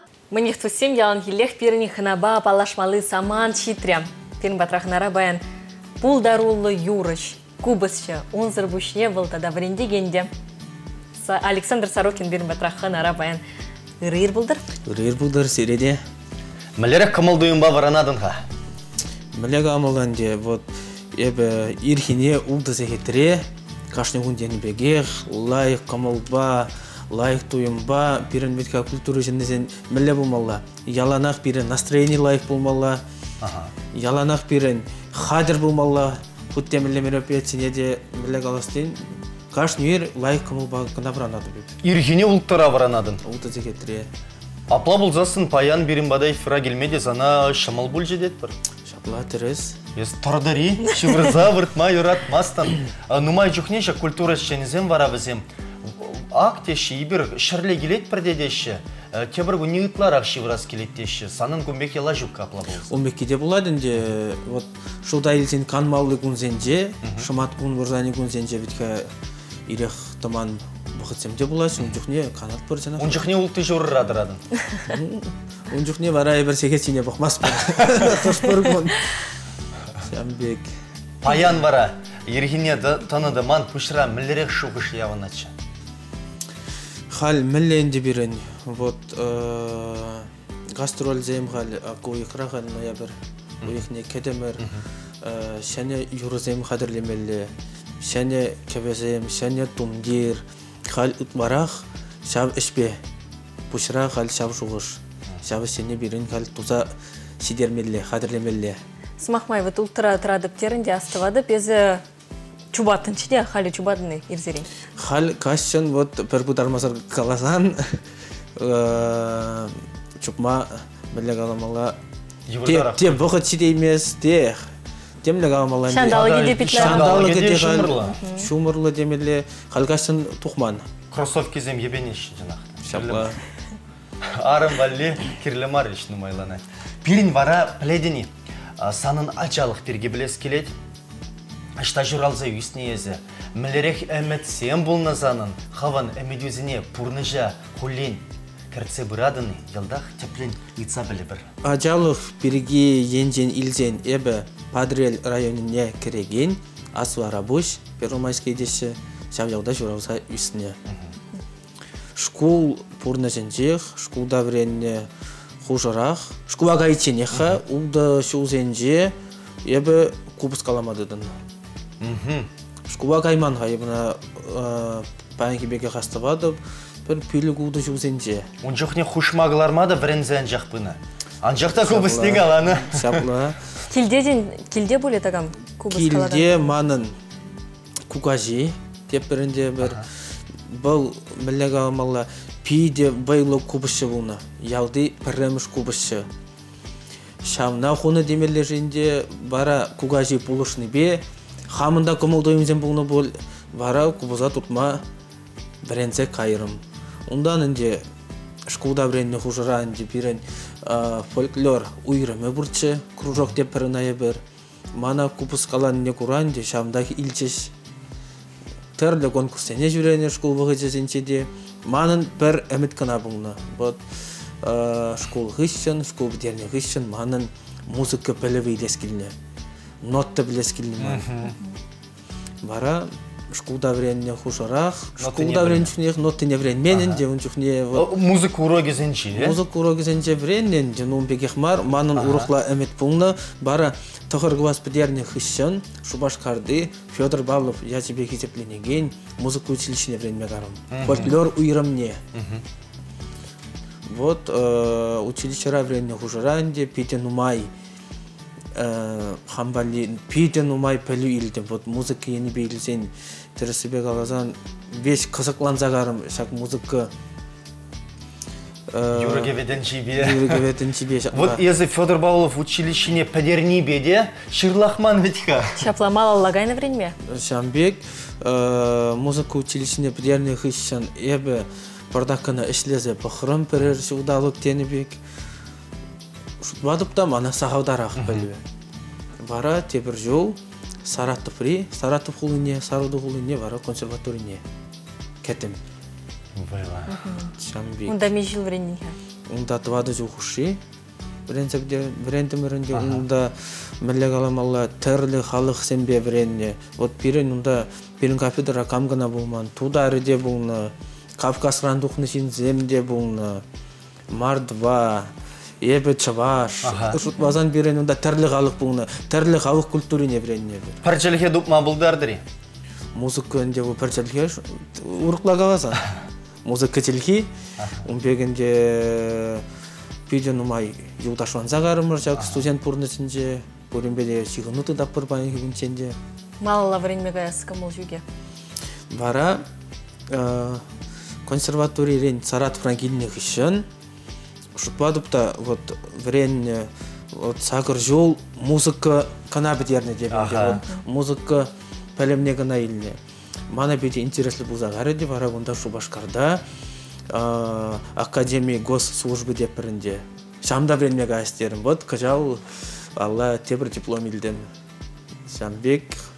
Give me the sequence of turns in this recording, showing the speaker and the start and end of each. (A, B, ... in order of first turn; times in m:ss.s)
0:00.3-0:05.4 A
0:06.0-0:10.3 A
0:11.2-0:13.4 A
0:14.0-0:14.6 A
0:14.8-0:16.0 B
0:16.8-0:18.4 C
0:19.3-0:33.0 B
0:33.4-0:33.7 C
0:33.9-0:41.8 B
0:41.8-0:43.2 C
0:43.2-0:44.1 B
0:44.7-0:48.6 C
0:48.8-0:49.8 B
0:50.0-1:03.0 C
1:02.9-1:09.1 B
1:07.0-1:07.3 C
1:09.7-1:13.3 B
1:13.0-1:14.4 C
1:14.9-1:19.2 B
1:20.0-1:20.7 B
1:21.2-1:25.5 C
1:27.1-1:34.7 B
1:35.2-1:43.0 B
1:43.7-1:48.8 B
1:49.2-1:52.0 A
1:52.7-1:54.7 A
1:55.0-1:58.0 B
1:58.6-2:02.0 B
2:02.5-2:03.2 C
2:02.6-2:04.7 B
2:05.2-2:10.9 B
2:05.9-2:07.3 A
2:06.0-2:08.2 C
2:08.0-2:08.5 A
2:11.1-2:13.4 C
2:12.8-2:13.4 B
2:14.2-2:20.7 C
2:21.8-2:31.5 C
2:31.6-2:40.8 B
2:42.2-2:45.1 B
2:45.6-2:51.4 B
2:47.3-2:47.6 C
2:52.0-2:52.5 C
2:52.9-2:58.5 B
2:58.6-3:03.2 C
3:01.6-3:03.6 B
3:03.9-3:06.7 A
3:05.9-3:07.2 B
3:08.1-3:16.3 B
3:17.4-3:25.0 B
3:25.8-3:28.0 B
3:28.7-3:34.4 B
3:34.9-3:37.7 B
3:39.0-3:49.3 B
3:50.0-3:51.5 B
3:51.0-3:51.6 C
3:52.6-3:58.1 B
3:55.2-3:55.9 C
3:56.9-3:57.2 C
3:57.9-3:59.6 C
3:59.3-4:12.2 B
4:02.2-4:02.5 C
4:10.9-4:11.4 C
4:12.3-4:12.6 C
4:14.1-4:17.7 B
4:18.7-4:27.1 B
4:28.9-4:29.6 B
4:29.1-4:30.6 C
4:30.2-4:31.6 B
4:31.3-4:35.8 C
4:35.8-4:37.2 A
4:37.2-4:45.2 B
4:46.6-4:48.6 B
4:48.2-4:48.5 C
4:49.4-4:54.6 B
4:55.4-4:55.8 B
4:56.6-4:57.1 C
4:57.1-4:57.5 A
4:57.6-4:58.3 B
4:58.1-4:59.2 A
4:59.5-5:00.8 B
5:01.5-5:13.6 B
5:02.9-5:03.2 C
5:14.3-5:21.0 B
5:16.8-5:17.2 C
5:17.3-5:17.5 A
5:21.0-5:22.4 C
5:23.2-5:26.1 B
5:26.6-5:27.5 B
5:27.8-5:28.0 C
5:28.0-5:29.6 B
5:30.3-5:36.2 B
5:32.4-5:32.6 C
5:36.6-5:38.2 A
5:39.1-5:39.6 B
5:40.3-5:40.8 B
5:41.5-5:43.9 B
5:44.8-5:56.6 B
5:50.3-5:50.8 C
5:57.3-6:02.6 B
6:03.2-6:04.7 B
6:05.5-6:06.2 B